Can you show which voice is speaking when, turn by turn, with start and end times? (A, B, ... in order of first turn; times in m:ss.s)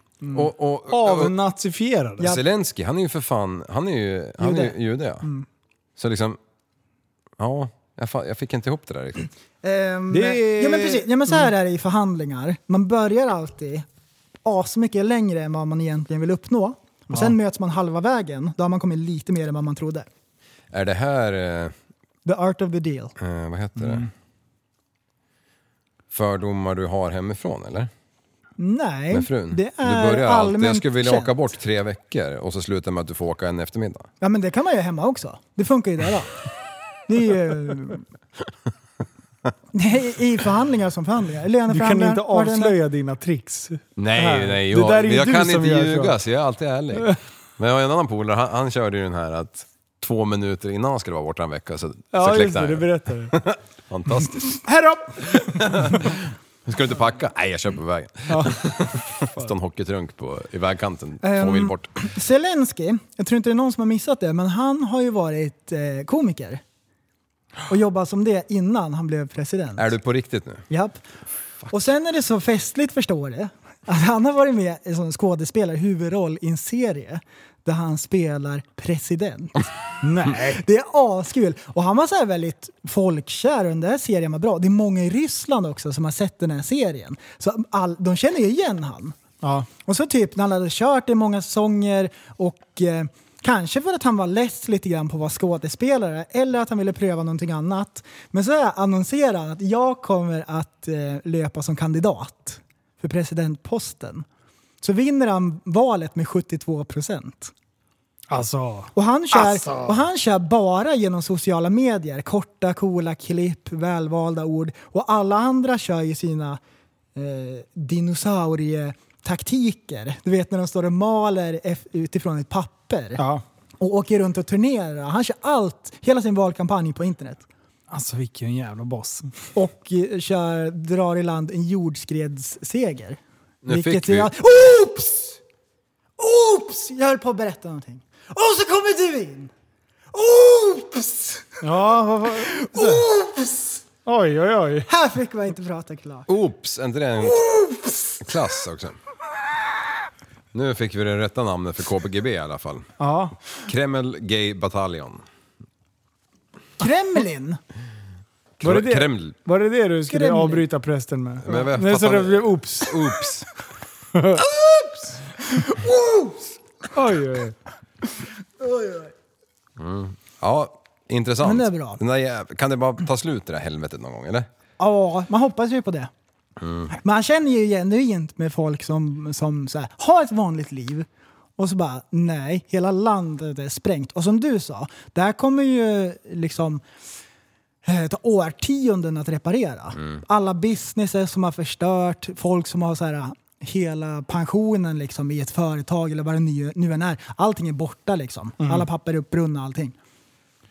0:00.2-0:02.4 A
0:00.3-0:01.3 B
0:02.2-0:05.3 B
0:04.4-0:05.4 C
0:06.0-0:06.4 B
0:07.4-0:09.3 B
0:09.6-0:13.8 C
0:10.1-0:11.5 A
0:14.4-0:20.1 C
0:17.1-0:17.4 A
0:20.7-0:21.7 B
0:22.2-0:23.1 C
0:23.2-0:24.1 B
0:23.8-0:24.1 A
0:26.1-0:27.9 B
0:28.6-0:31.5 C
0:29.1-0:34.1 B
0:34.2-0:36.3 C
0:37.1-0:38.0 C
0:39.7-0:42.8 C
0:41.7-0:46.1 A
0:44.0-0:54.6 B
0:52.1-0:53.4 A
0:54.6-0:56.1 A
0:55.2-1:02.0 B
0:58.3-0:58.6 A
0:59.2-0:59.5 A
1:01.2-1:06.6 C
1:07.7-1:09.9 C
1:09.8-1:10.6 B
1:10.7-1:11.0 C
1:11.7-1:19.7 C
1:20.0-1:20.6 A
1:20.4-1:29.1 C
1:29.4-1:29.7 A
1:29.8-1:44.2 C
1:44.8-1:47.5 C
1:48.3-1:50.0 A
1:48.9-1:56.6 C
1:57.2-2:03.2 C
2:03.2-2:03.4 A
2:03.8-2:07.4 C
2:07.9-2:09.3 A
2:09.5-2:15.4 C
2:13.6-2:14.3 B
2:16.2-2:19.5 C
2:20.1-2:21.6 C
2:21.6-2:23.0 A
2:22.4-2:23.8 C
2:24.0-2:24.9 A
2:24.9-2:26.3 C
2:26.3-2:27.5 B
2:27.3-2:28.2 C
2:28.2-2:29.0 B
2:30.5-2:32.9 B
2:33.0-2:33.4 A
2:33.5-2:35.2 B
2:36.8-2:37.6 C
2:38.6-2:39.3 B
2:38.6-2:43.0 A
2:40.1-2:40.6 C
2:41.4-2:43.5 B
2:44.1-2:44.4 A
2:44.4-2:46.5 C
2:46.9-2:47.6 A
2:48.6-2:49.1 C
2:49.8-2:54.5 B
2:51.4-2:52.0 C
2:54.8-2:56.1 C
2:56.6-2:56.9 B
2:56.9-3:01.1 C
3:01.6-3:06.8 C
3:07.8-3:20.0 C
3:18.6-3:18.8 A